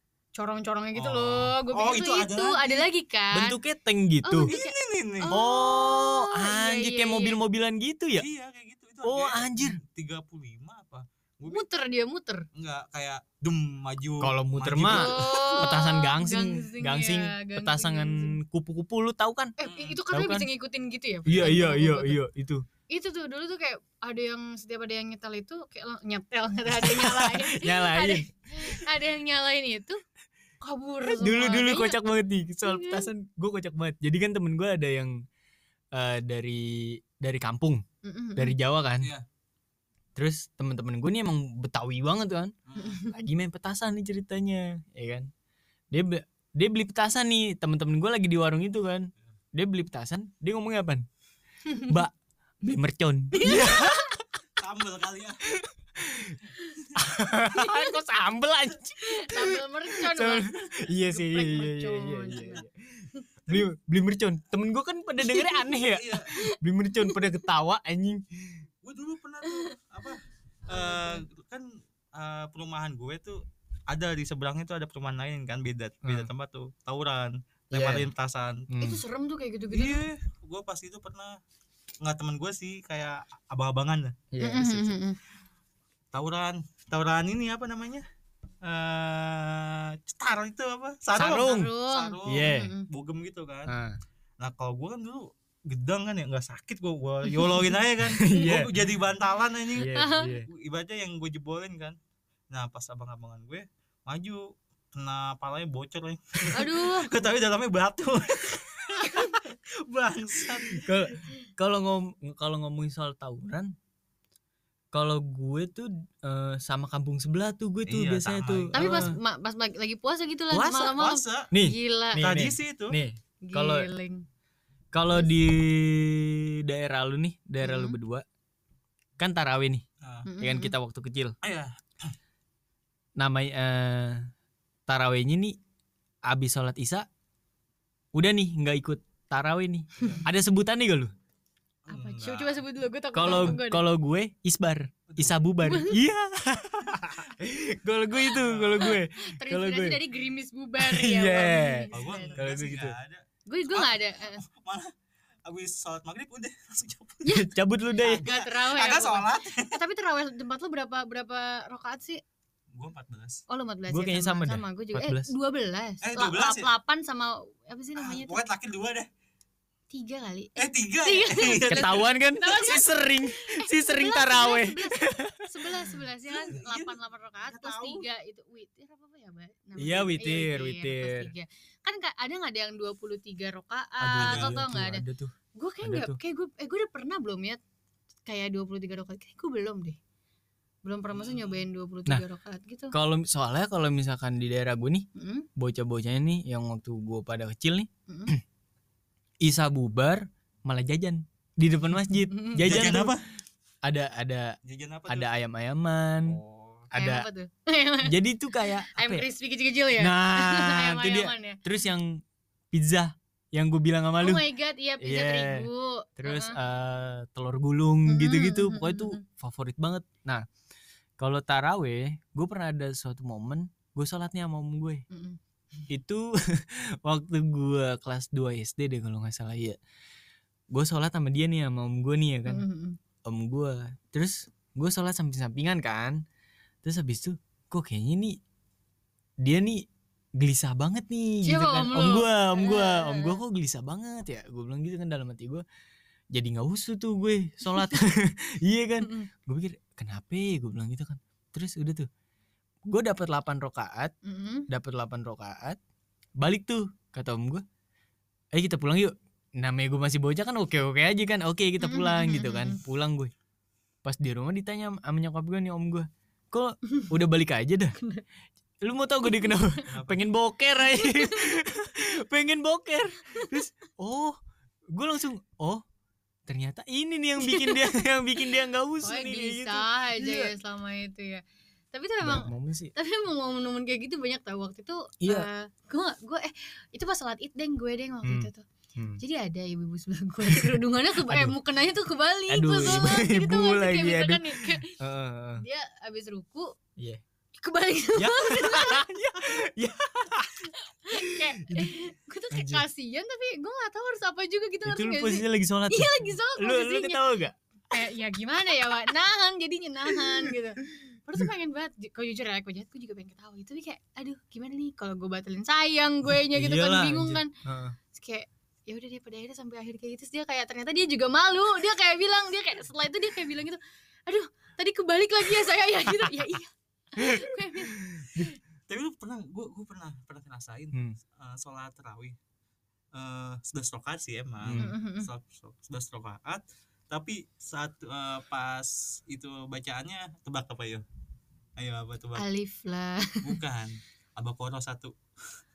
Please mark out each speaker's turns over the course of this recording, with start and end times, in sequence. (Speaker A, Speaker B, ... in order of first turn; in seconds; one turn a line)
Speaker A: 0.4-3.6
Speaker B: 1.0-2.9
Speaker C: 3.3-4.5
Speaker A: 4.2-7.4
Speaker B: 4.5-5.4
Speaker C: 5.3-8.2
Speaker B: 8.2-11.7
Speaker C: 9.1-9.8
Speaker A: 11.5-12.5
Speaker B: 12.5-15.7
Speaker C: 14.2-19.6
Speaker A: 14.8-18.4
Speaker A: 19.6-22.2
Speaker B: 19.6-20.0
Speaker C: 20.1-20.5
Speaker B: 21.3-21.7
Speaker C: 21.3-22.6
Speaker A: 22.9-30.0
Speaker C: 26.7-28.7
Speaker A: 30.6-32.0
Speaker C: 31.1-35.2
Speaker A: 32.6-33.1
Speaker C: 35.9-37.8
Speaker A: 38.0-38.5
Speaker C: 38.4-39.1
Speaker C: 40.1-42.5
Speaker B: 42.7-43.0
Speaker A: 42.8-43.1
Speaker C: 43.0-45.3
Speaker C: 45.9-51.1
Speaker C: 51.8-54.3
Speaker A: 53.3-54.1
Speaker B: 54.6-55.5
Speaker C: 55.5-56.4
Speaker C: 57.0-68.7
Speaker A: 57.6-57.9
Speaker A: 59.0-62.6
Speaker A: 65.2-65.7
Speaker B: 65.8-66.4
Speaker A: 66.2-67.2
Speaker B: 68.8-78.7
Speaker A: 69.5-69.8
Speaker A: 70.7-71.2
Speaker C: 76.0-76.3
Speaker C: 77.7-78.1
Speaker C: 78.7-79.0
Speaker A: 78.8-80.0
Speaker B: 79.7-81.4
Speaker B: 82.0-84.2
Speaker C: 84.3-85.0
Speaker A: 84.4-85.2
Speaker B: 86.1-88.1
Speaker B: 88.6-93.7
Speaker A: 91.2-92.9
Speaker C: 91.2-91.7
Speaker C: 92.3-92.7
Speaker C: 93.7-94.0
Speaker B: 94.4-102.0
Speaker C: 98.0-98.8
Speaker C: 99.8-100.5
Speaker A: 99.8-100.4
Speaker B: 102.5-110.9
Speaker A: 106.5-107.2
Speaker A: 109.0-109.4
Speaker C: 110.8-113.7
Speaker C: 114.9-119.2
Speaker B: 117.9-119.1
Speaker A: 118.7-122.3
Speaker C: 120.5-121.0
Speaker B: 120.9-121.5
Speaker C: 121.5-123.9
Speaker B: 122.2-123.0
Speaker A: 123.4-124.2
Speaker C: 124.9-128.2
Speaker A: 127.6-128.0
Speaker C: 129.2-129.8
Speaker B: 130.0-130.3
Speaker A: 130.3-130.7
Speaker C: 130.4-131.4
Speaker B: 131.4-132.1
Speaker C: 133.2-134.3
Speaker C: 134.9-135.6
Speaker C: 136.3-137.1
Speaker C: 138.1-141.1
Speaker B: 140.0-140.2
Speaker B: 141.9-142.6
Speaker A: 141.9-143.8
Speaker C: 143.1-150.0
Speaker B: 143.2-143.6
Speaker B: 145.1-145.4
Speaker A: 145.6-146.0
Speaker A: 148.2-152.4
Speaker B: 148.4-148.9
Speaker C: 150.8-152.9
Speaker B: 151.9-154.9
Speaker A: 153.5-154.4
Speaker B: 155.5-157.3
Speaker A: 157.2-162.2
Speaker C: 157.3-158.2
Speaker B: 158.0-159.8
Speaker B: 162.8-163.4
Speaker A: 163.5-168.4
Speaker C: 163.9-165.3
Speaker B: 166.0-166.7
Speaker B: 168.0-169.1
Speaker A: 169.9-185.0
Speaker B: 170.6-172.1
Speaker C: 171.7-175.8
Speaker B: 176.3-178.1
Speaker C: 179.8-181.3
Speaker C: 184.0-186.2
Speaker B: 184.2-184.6
Speaker A: 185.6-187.6
Speaker A: 188.3-190.0
Speaker A: 190.8-192.9
Speaker B: 191.1-191.7
Speaker C: 192.9-198.4
Speaker A: 195.2-195.5
Speaker A: 198.1-198.3
Speaker C: 199.4-203.2
Speaker A: 202.3-203.0
Speaker B: 202.6-203.2
Speaker C: 203.8-204.6
Speaker B: 204.7-205.3
Speaker C: 205.1-206.4
Speaker B: 206.2-206.9
Speaker C: 206.9-207.3
Speaker A: 206.9-211.6
Speaker C: 208.1-209.2
Speaker C: 210.0-214.5
Speaker A: 214.2-216.6
Speaker C: 215.0-220.4
Speaker A: 218.1-219.2
Speaker C: 221.2-225.0
Speaker A: 225.1-225.4
Speaker C: 225.9-229.8
Speaker C: 230.7-232.7
Speaker A: 232.5-233.0
Speaker C: 233.2-236.2
Speaker C: 236.8-238.4
Speaker C: 239.4-239.8
Speaker C: 240.4-245.7
Speaker A: 241.4-243.4
Speaker C: 246.3-252.1
Speaker A: 247.7-248.0
Speaker A: 249.0-249.3
Speaker C: 252.9-254.1
Speaker A: 254.2-254.7
Speaker C: 254.7-255.8
Speaker C: 256.4-257.6
Speaker C: 258.5-263.3
Speaker A: 261.8-262.8
Speaker C: 264.0-268.0
Speaker A: 268.0-268.2
Speaker C: 268.8-274.4
Speaker A: 269.3-269.6
Speaker B: 269.9-270.2
Speaker A: 270.9-271.5
Speaker C: 274.9-275.8
Speaker C: 276.5-280.5
Speaker A: 277.4-278.0
Speaker A: 279.0-288.6
Speaker C: 282.2-282.9
Speaker C: 285.2-285.5
Speaker C: 288.2-289.2
Speaker A: 289.2-295.0
Speaker C: 290.5-291.6
Speaker C: 292.5-295.6
Speaker A: 295.6-296.8
Speaker C: 297.0-297.2
Speaker A: 297.6-299.1
Speaker C: 298.2-302.0
Speaker A: 300.7-307.3
Speaker C: 302.5-302.8
Speaker C: 304.9-307.6
Speaker A: 307.9-317.5
Speaker C: 310.1-310.6
Speaker C: 316.4-318.0
Speaker A: 318.1-328.6
Speaker C: 327.2-328.5
Speaker B: 328.9-332.4
Speaker B: 333.1-341.0
Speaker C: 334.6-334.9
Speaker A: 334.8-335.3
Speaker B: 341.8-342.4
Speaker A: 342.4-343.6
Speaker B: 343.4-345.1